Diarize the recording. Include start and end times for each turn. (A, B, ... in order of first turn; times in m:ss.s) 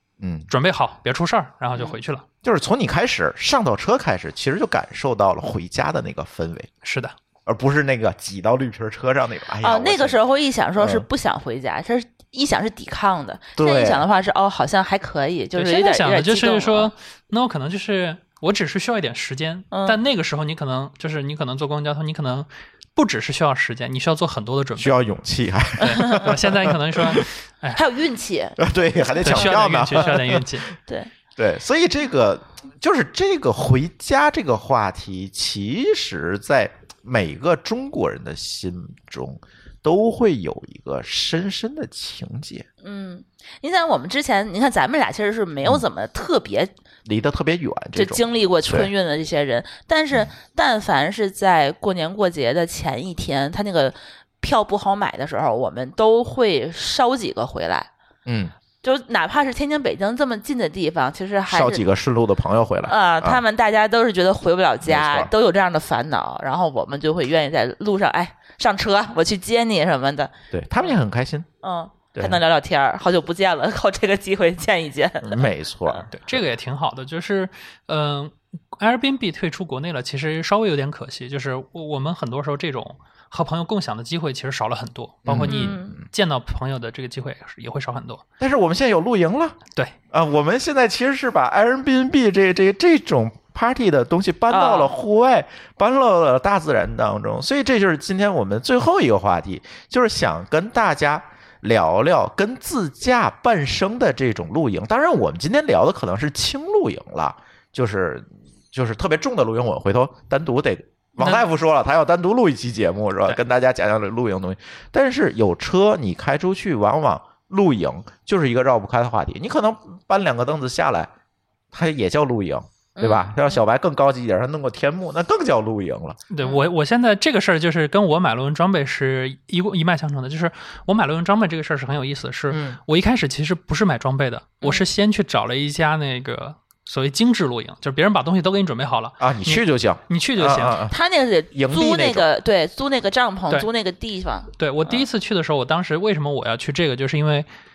0:00.2-0:00.5 A
0:00.5-0:02.2 B
0:02.4-0:06.7 A
0:06.8-0:07.2 B
0:07.5-0:10.2 A
0:09.6-0:16.9 C
0:10.8-0:11.1 A
0:13.6-0:14.0 A
0:15.6-0:25.0 B
0:19.7-0:20.0 C
0:24.8-0:27.3 A
0:25.8-0:27.8 B
0:26.0-0:26.3 C
0:27.7-0:30.1 C
0:28.6-0:30.4 A
0:29.2-0:30.7 B
0:30.9-0:31.1 C
0:31.4-0:42.7 A
0:42.8-0:46.7 C
0:47.0-0:48.9 A
0:48.0-0:57.9 C
0:58.3-0:58.5 A
0:58.8-1:01.9 C
1:01.5-1:03.4 A
1:02.9-1:10.9 C
1:04.8-1:05.3 A
1:10.5-1:11.5 A
1:11.6-1:16.0 C
1:15.2-1:16.4 A
1:16.1-1:28.2 B
1:25.2-1:26.0 A
1:25.5-1:26.0 C
1:28.4-1:29.6 A
1:30.1-2:01.1 A
1:34.5-1:34.9 C
1:51.2-1:51.5 B
2:01.7-2:06.2 A
2:03.0-2:03.4 C
2:06.3-2:20.8 B
2:12.5-2:12.8 A
2:19.2-2:21.0 A
2:20.9-2:25.1 C
2:21.5-2:22.3 A
2:24.6-2:27.5 B